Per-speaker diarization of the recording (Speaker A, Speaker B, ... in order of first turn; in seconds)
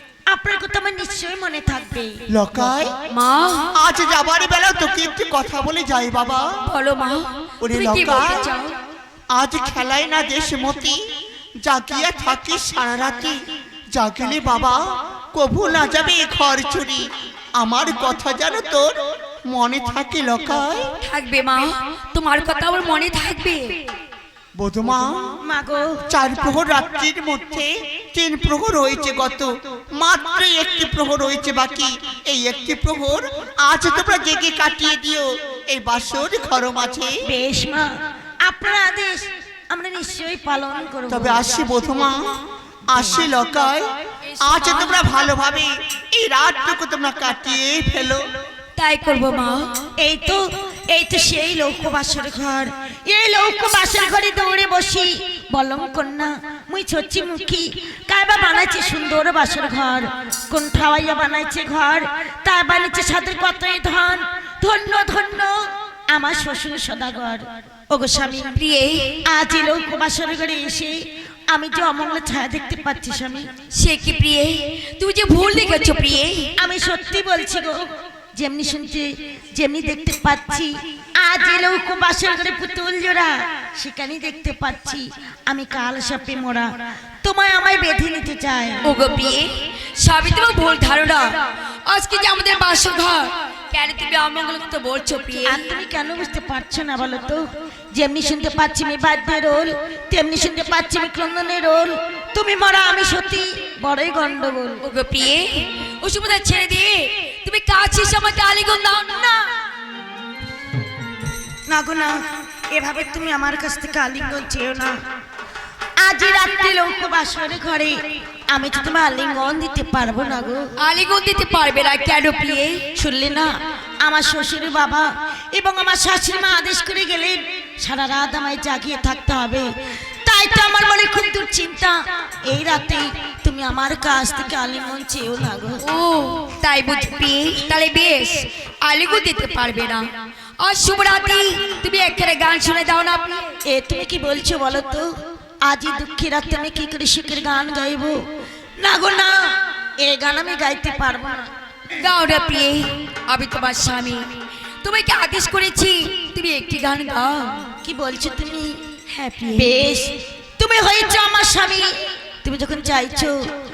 Speaker A: 0.3-2.2, 25.4-26.0, 37.2-41.7, 50.0-68.6, 69.2-73.5, 76.6-88.8, 95.4-104.8, 111.7-115.0, 116.0-120.7, 123.0-135.8, 143.7-148.2, 148.8-151.5, 157.8-158.8, 159.5-163.4
Speaker B: 2.3-2.9, 3.7-6.5, 7.6-8.5, 9.3-11.0, 11.6-19.0, 19.5-20.9, 24.6-25.3, 26.1-37.2, 41.1-42.4, 42.9-43.9, 44.4-48.2
Speaker C: 3.1-3.7, 6.6-8.7, 21.0-23.8, 44.3-45.0, 48.8-49.8, 68.5-69.2, 73.7-76.5, 88.8-95.6, 104.8-109.2, 120.8-122.8, 135.8-140.1, 140.6-143.5, 151.9-154.2, 154.8-157.7, 159.1-159.9